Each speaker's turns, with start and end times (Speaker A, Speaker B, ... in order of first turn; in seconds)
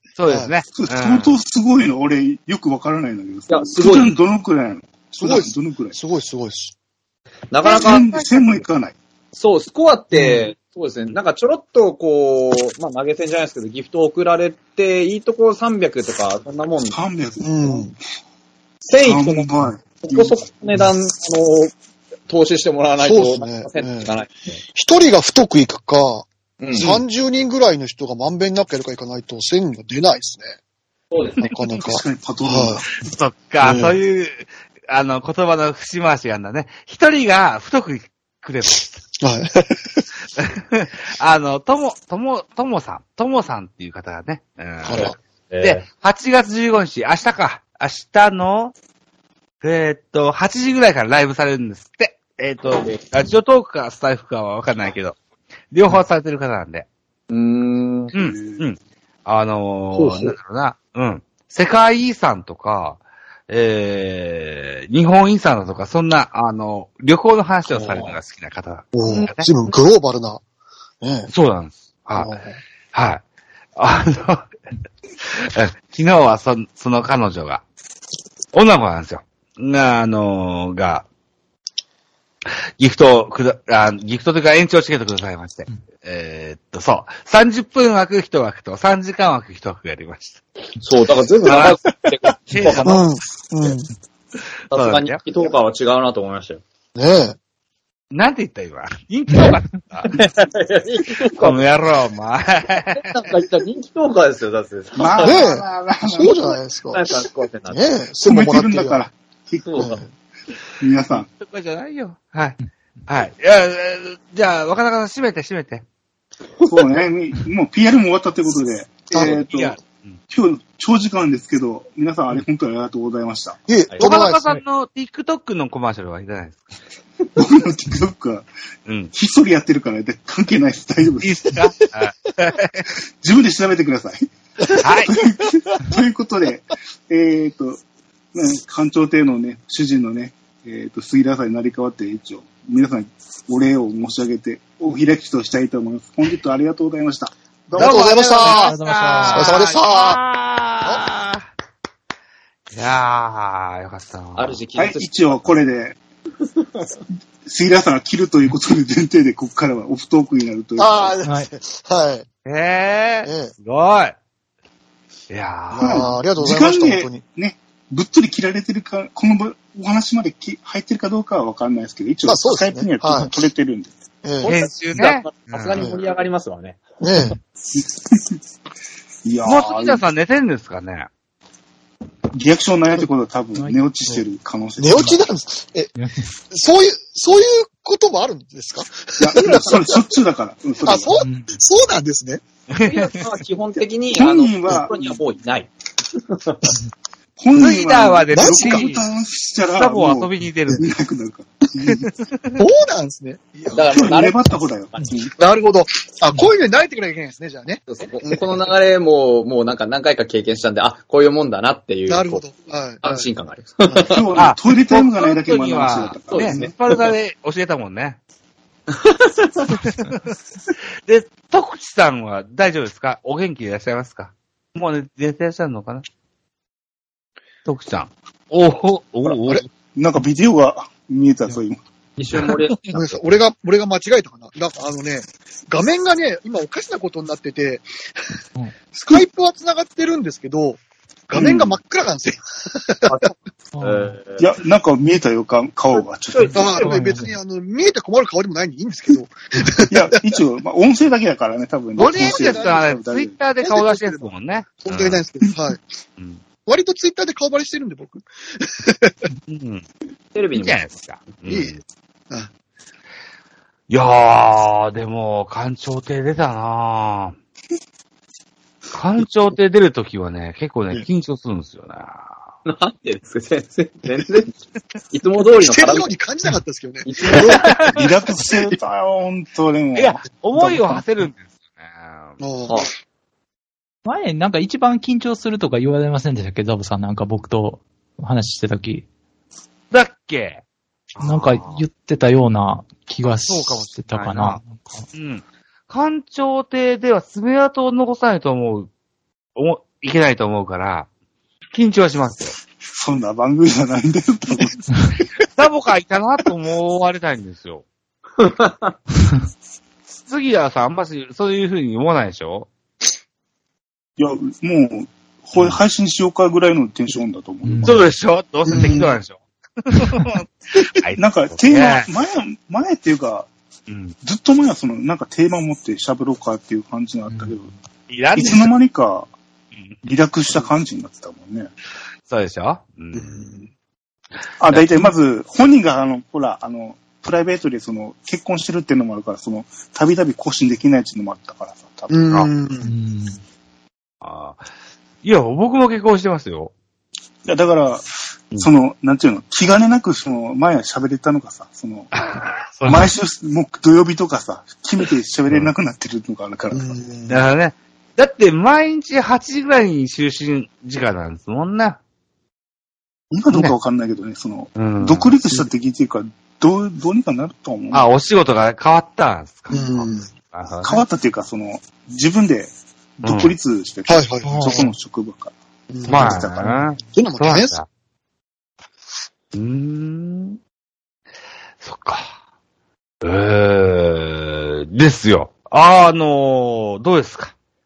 Speaker A: 0.2-1.3, 7.7-8.5, 33.0-39.0, 40.4-48.7, 49.6-55.2, 55.7-56.9, 58.1-69.5, 71.3-72.3, 72.9-73.2, 73.8-74.5, 75.2-77.6, 78.5-81.0, 82.8-90.4, 91.5-91.8, 92.5-93.1, 94.7-95.2, 98.1-100.2, 101.4-103.1, 105.3-105.6, 111.1-115.8, 119.2-120.2, 124.0-126.8, 128.9-129.1, 131.2-132.9, 134.8-135.1, 147.8-151.5, 152.7-154.6, 162.4-164.2, 165.3-166.1, 174.4-175.9, 179.4-181.1, 192.7-193.2, 197.5-199.1, 199.7-200.9, 201.9-202.6, 214.4-218.2, 219.7-220.2, 221.1-226.1, 227.7-229.7, 232.4-232.9, 252.0-255.2, 259.5-259.9, 260.5-261.8, 263.9-267.4, 268.9-272.4, 277.4-278.0, 279.9-282.4, 289.9-290.6, 291.2-291.8, 293.4-298.9, 299.6-301.1, 301.7-302.6, 305.5-307.9, 310.3-312.7, 315.6-315.8, 317.8-322.1, 323.9-324.1, 328.1-328.7, 332.3-333.4, 334.7-335.1, 344.2-344.6, 345.2-346.7, 352.1-353.1, 357.3-362.0, 364.8-365.3, 367.9-371.0, 373.2-373.6, 376.1-377.9, 379.5-380.6, 381.8-382.4, 383.2-387.5
Speaker B: 0.7-6.0, 7.6-9.0, 16.9-17.9, 19.1-20.4, 31.8-32.9, 58.2-58.6, 105.0-106.6, 108.2-109.8, 110.8-111.3, 116.7-119.8, 120.3-123.6, 127.3-128.5, 129.1-131.5, 133.2-137.8, 138.3-148.2, 154.8-156.0, 157.4-161.2, 165.8-173.9, 177.7-178.4, 179.2-180.0, 182.3-185.2, 189.2-191.2, 194.2-195.0, 197.4-202.1, 203.9-205.3, 214.0-216.7, 229.9-231.8, 241.3-241.8, 244.4-246.8, 249.9-253.3, 277.9-281.0, 302.9-304.9, 314.2-318.0, 321.2-323.5, 324.2-327.7, 328.4-329.3, 330.0-331.7, 334.6-342.3, 347.4-348.1, 348.6-352.1, 352.9-357.0, 363.3-368.1, 370.8-375.5, 376.1-376.9
Speaker C: 3.5-4.1, 7.5-8.1, 9.3-17.0, 18.9-21.7, 22.3-24.6, 26.6-27.0, 31.1-31.4, 44.9-45.9, 57.3-58.1, 60.0-60.3, 90.8-93.0, 94.7-96.6, 100.1-101.7, 103.0-105.4, 106.9-108.0, 109.6-110.0, 154.4-155.6, 174.4-176.8, 192.8-196.8, 203.7-204.4, 207.9-212.4, 213.0-214.2, 216.3-217.1, 218.9-219.7, 232.2-233.2, 243.1-244.5, 245.9-246.9, 260.4-260.8, 272.7-274.6, 275.1-276.1, 277.0-277.8, 308.4-308.9
Speaker D: 5.2-6.7, 17.4-17.9, 23.0-24.1, 24.7-30.6, 31.4-32.8, 33.6-34.0, 39.2-40.0, 44.8-45.1, 67.8-68.1, 68.9-70.4, 71.0-71.3, 72.2-72.6, 92.8-93.9, 97.0-97.4, 105.2-107.0, 107.7-109.1, 109.8-110.1, 119.1-119.4, 123.7-124.5, 147.8-150.2, 160.8-162.3, 163.2-163.5, 165.7-167.2, 172.2-173.3, 174.2-174.6, 177.0-177.4, 184.8-185.9, 186.5-190.1, 190.8-192.4, 198.3-198.9, 202.6-204.2, 205.4-208.4, 212.1-213.3, 229.3-229.7, 232.9-237.9, 238.9-243.3, 246.5-250.2, 252.0-253.0, 253.6-254.3, 254.8-255.8, 256.7-259.2, 261.5-261.8, 275.6-277.9, 282.4-282.9, 318.7-319.2, 333.1-333.7, 342.1-342.9, 356.7-357.4, 369.7-370.3, 374.1-374.9, 375.9-376.5, 377.1-377.8
Speaker E: 148.4-149.6, 186.0-186.3, 191.2-191.6, 243.7-244.2, 246.8-247.3, 284.1-289.1, 291.2-295.1, 317.6-318.0, 342.8-343.4, 374.4-374.9